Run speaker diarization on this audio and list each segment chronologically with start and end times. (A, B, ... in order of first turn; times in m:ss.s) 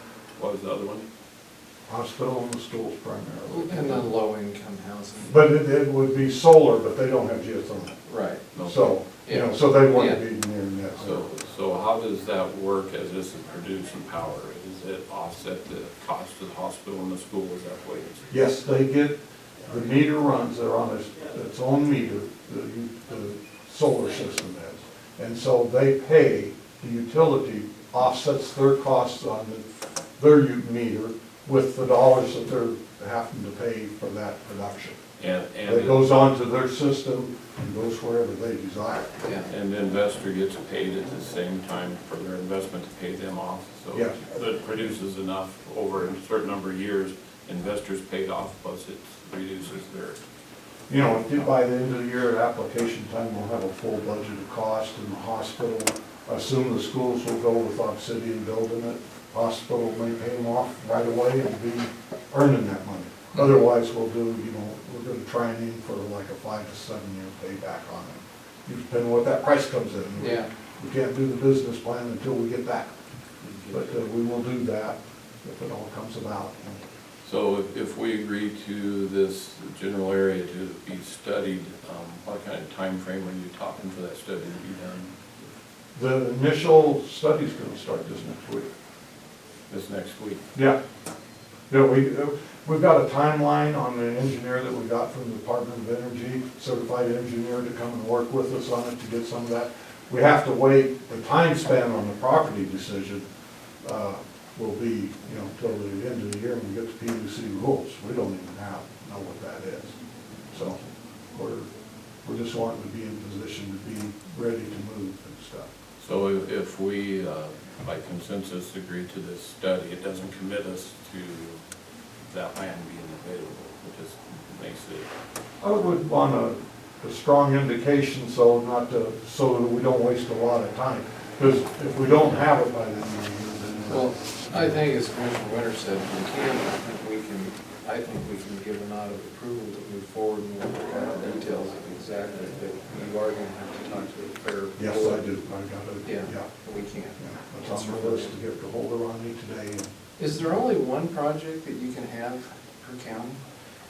0:00.4-0:01.1 A
0:01.9-0:04.1 B
0:03.5-0:05.4 C
0:05.3-0:08.0 B
0:08.1-0:08.4 C
0:08.5-0:08.9 A
0:08.6-0:11.3 B
0:09.2-0:10.2 C
0:11.0-0:18.3 A
0:18.3-0:29.6 B
0:30.2-0:35.0 B
0:35.2-0:36.1 A
0:35.6-0:39.1 B
0:39.2-0:39.5 C
0:39.5-0:50.2 A
0:50.9-1:12.9 B
1:10.2-1:10.5 C
1:13.4-1:13.8 A
1:13.7-1:16.8 B
1:17.2-1:25.2 A
1:26.0-1:28.7 B
1:29.7-1:30.4 A
1:31.7-1:43.2 B
1:43.8-1:50.0 B
1:50.5-1:50.8 B
1:51.3-1:51.7 B
1:52.2-1:55.7 B
1:56.0-2:01.6 A
2:02.3-2:05.1 A
2:05.6-2:14.8 B
2:13.9-2:25.2 C
2:24.8-2:26.5 B
2:26.0-2:28.3 C
2:27.2-2:29.9 B
2:30.2-2:33.4 C